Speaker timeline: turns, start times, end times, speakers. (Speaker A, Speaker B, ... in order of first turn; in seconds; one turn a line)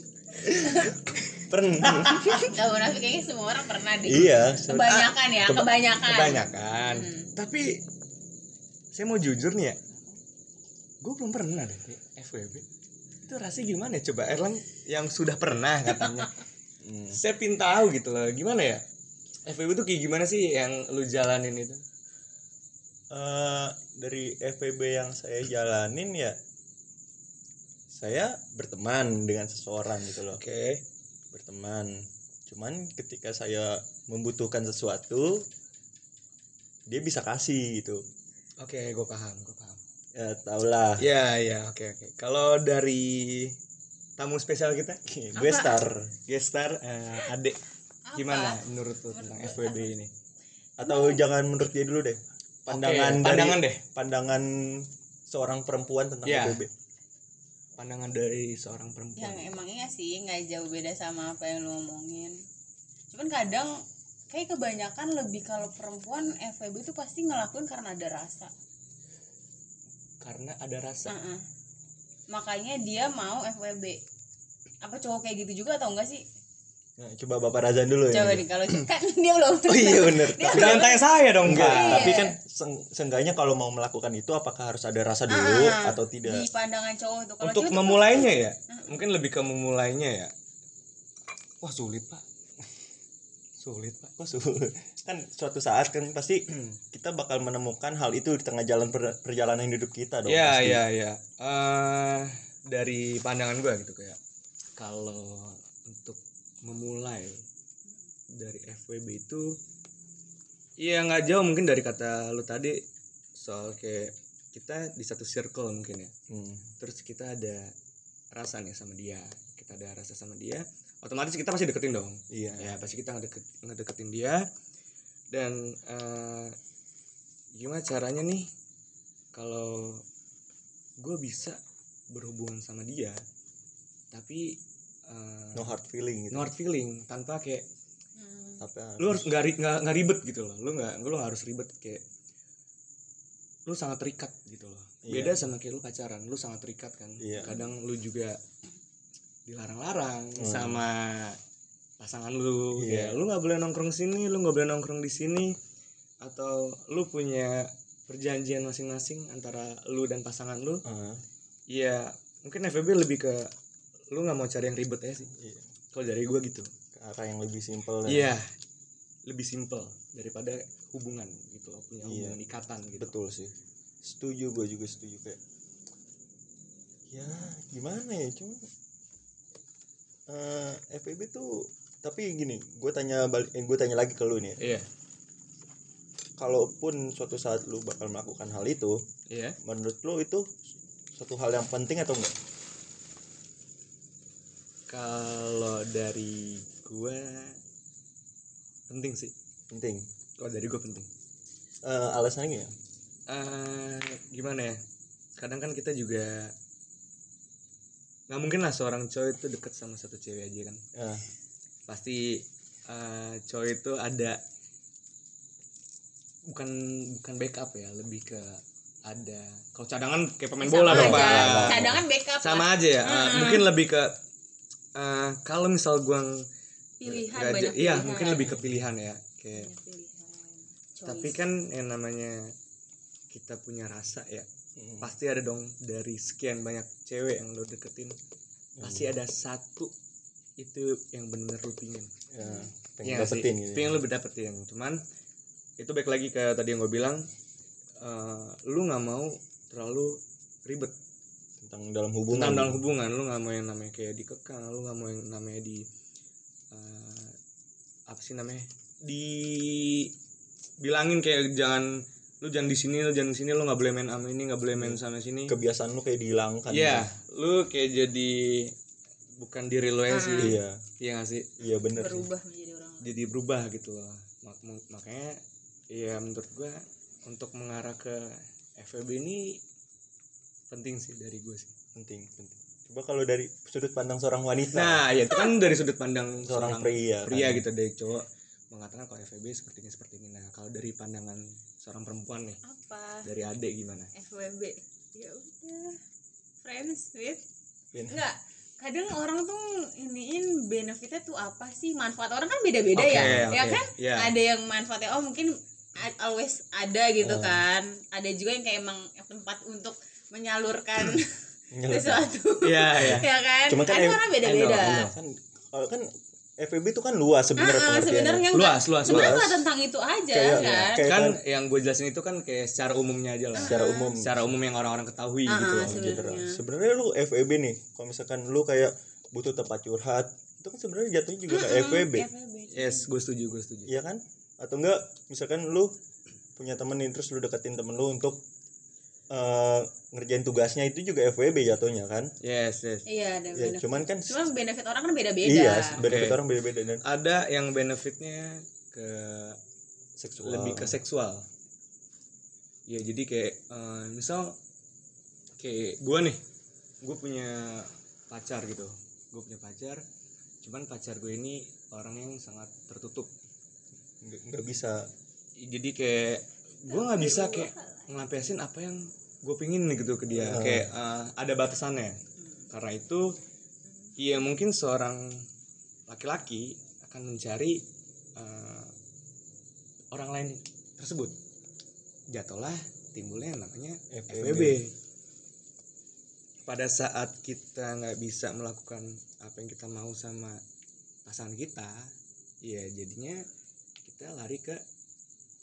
Speaker A: 0.4-2.6
Speaker B: 0.5-0.9
Speaker B: 1.8-7.3
Speaker A: 4.1-5.7
Speaker C: 6.0-7.8
Speaker C: 8.9-9.8
Speaker C: 11.0-12.7
Speaker C: 13.2-16.3
Speaker A: 16.8-17.2
Speaker C: 17.1-18.8
Speaker C: 19.5-21.8
Speaker A: 23.1-26.4
Speaker A: 27.9-30.4
Speaker C: 30.3-30.8
Speaker A: 31.3-35.5
Speaker A: 36.9-38.0
Speaker C: 38.6-39.8
Speaker A: 40.1-41.1
Speaker C: 41.0-43.6
Speaker C: 44.2-45.0
Speaker A: 45.1-46.2
Speaker B: 45.4-45.8
Speaker C: 46.3-47.6
Speaker B: 48.1-49.9
Speaker C: 48.1-50.1
Speaker A: 50.8-56.7
Speaker B: 50.9-51.2
Speaker C: 52.7-53.8
Speaker C: 56.2-56.6
Speaker C: 57.8-59.6
Speaker B: 59.2-62.4
Speaker B: 63.1-63.8
Speaker B: 64.3-68.5
Speaker C: 70.2-71.1
Speaker B: 71.1-71.4
Speaker B: 72.3-74.0
Speaker B: 74.8-76.2
Speaker A: 77.0-78.8
Speaker B: 78.1-81.1
Speaker A: 79.7-80.9
Speaker C: 80.5-82.1
Speaker A: 81.4-86.5
Speaker B: 81.6-82.3
Speaker B: 85.3-88.9
Speaker C: 87.4-90.3
Speaker C: 91.6-92.2
Speaker C: 93.6-94.1
Speaker A: 94.2-100.8
Speaker C: 100.3-104.2
Speaker C: 104.8-107.4
Speaker C: 108.3-109.5
Speaker C: 110.8-112.8
Speaker C: 113.4-116.1
Speaker A: 116.3-116.7
Speaker C: 116.8-117.7
Speaker C: 118.3-124.4
Speaker A: 122.3-122.7
Speaker C: 125.3-126.6
Speaker C: 127.5-128.5
Speaker C: 129.3-130.0
Speaker C: 131.0-131.6
Speaker C: 132.1-133.2
Speaker C: 134.1-135.7
Speaker A: 135.6-136.5
Speaker C: 136.3-137.6
Speaker B: 138.2-138.7
Speaker A: 138.6-139.3
Speaker C: 139.0-142.0
Speaker C: 143.7-148.4
Speaker A: 145.0-145.5
Speaker A: 147.2-147.6
Speaker C: 149.5-151.4
Speaker A: 150.4-150.8
Speaker C: 152.0-155.6
Speaker A: 152.7-153.2
Speaker C: 156.2-160.8
Speaker A: 160.8-161.2
Speaker C: 161.7-163.5
Speaker C: 164.1-165.3
Speaker A: 165.3-165.7
Speaker C: 165.9-166.7
Speaker A: 166.9-168.3
Speaker C: 168.1-168.5
Speaker C: 169.3-173.1
Speaker A: 172.0-172.4
Speaker A: 173.0-175.4
Speaker A: 177.1-178.7
Speaker A: 180.3-184.7
Speaker C: 184.6-184.9
Speaker A: 186.4-189.0
Speaker C: 189.3-189.6
Speaker A: 189.6-190.6
Speaker A: 191.1-192.3
Speaker C: 194.9-197.6
Speaker C: 198.9-199.3
Speaker A: 199.7-200.1
Speaker C: 200.4-201.1
Speaker A: 201.8-202.7
Speaker C: 203.3-204.8
Speaker C: 205.4-206.5
Speaker C: 208.3-210.8
Speaker A: 210.9-211.2
Speaker C: 211.9-214.4
Speaker C: 216.5-224.2
Speaker B: 220.6-223.7
Speaker A: 220.9-222.0
Speaker C: 224.9-226.4
Speaker B: 227.0-228.6
Speaker C: 227.1-229.7
Speaker A: 228.4-228.9
Speaker B: 229.5-231.4
Speaker C: 231.1-232.5
Speaker C: 233.3-234.5
Speaker A: 234.8-235.1
Speaker C: 235.0-238.2
Speaker A: 238.8-239.1
Speaker C: 238.8-239.9
Speaker C: 240.6-242.1
Speaker A: 242.3-244.0
Speaker B: 242.4-242.7
Speaker C: 243.0-245.0
Speaker C: 245.8-247.3
Speaker C: 248.0-250.9
Speaker A: 251.6-252.8
Speaker C: 252.3-255.9
Speaker C: 256.7-257.4
Speaker C: 258.1-260.1
Speaker C: 260.8-265.6
Speaker A: 264.8-267.1
Speaker C: 266.7-268.7
Speaker C: 269.4-271.5
Speaker B: 270.1-270.6
Speaker A: 270.4-270.8
Speaker A: 271.6-272.3
Speaker B: 271.9-273.1
Speaker C: 273.0-275.4
Speaker C: 275.9-279.6
Speaker C: 280.7-281.7
Speaker A: 281.9-285.1
Speaker C: 284.7-292.6
Speaker A: 286.4-287.7
Speaker B: 292.6-293.3
Speaker C: 293.2-294.1
Speaker B: 294.1-296.0
Speaker B: 296.6-297.4
Speaker A: 297.9-298.2
Speaker B: 298.1-311.3
Speaker C: 302.9-304.3
Speaker A: 303.1-303.6
Speaker A: 307.2-307.6
Speaker A: 311.7-312.3
Speaker B: 311.9-315.1
Speaker C: 312.6-313.3
Speaker A: 313.7-316.1
Speaker C: 314.4-315.0
Speaker A: 316.6-318.5
Speaker B: 317.6-321.1
Speaker C: 318.5-319.4
Speaker A: 319.0-319.6
Speaker A: 320.3-321.4
Speaker C: 321.0-326.0
Speaker B: 323.6-324.1
Speaker A: 323.6-324.6
Speaker B: 325.5-326.6
Speaker A: 325.6-332.3
Speaker B: 331.5-333.1
Speaker C: 332.7-333.9
Speaker A: 333.9-335.9
Speaker A: 336.6-338.4
Speaker A: 339.3-342.3
Speaker C: 342.4-343.1
Speaker B: 343.1-346.0
Speaker A: 343.5-344.4
Speaker A: 345.4-347.0
Speaker C: 345.9-346.4
Speaker C: 347.0-349.6
Speaker A: 350.2-351.0
Speaker C: 350.4-351.4
Speaker C: 352.9-354.6
Speaker C: 355.6-356.4
Speaker C: 357.0-360.0
Speaker C: 360.6-363.3
Speaker A: 364.2-365.1
Speaker C: 365.6-372.2
Speaker B: 366.9-368.3
Speaker A: 370.3-370.9
Speaker C: 372.7-373.3
Speaker C: 374.2-375.4
Speaker C: 376.1-377.8
Speaker C: 378.4-378.9
Speaker C: 380.1-381.4
Speaker C: 382.3-384.9
Speaker A: 384.1-384.8
Speaker C: 386.7-390.6
Speaker C: 391.3-392.1
Speaker C: 392.6-393.4
Speaker C: 394.0-394.8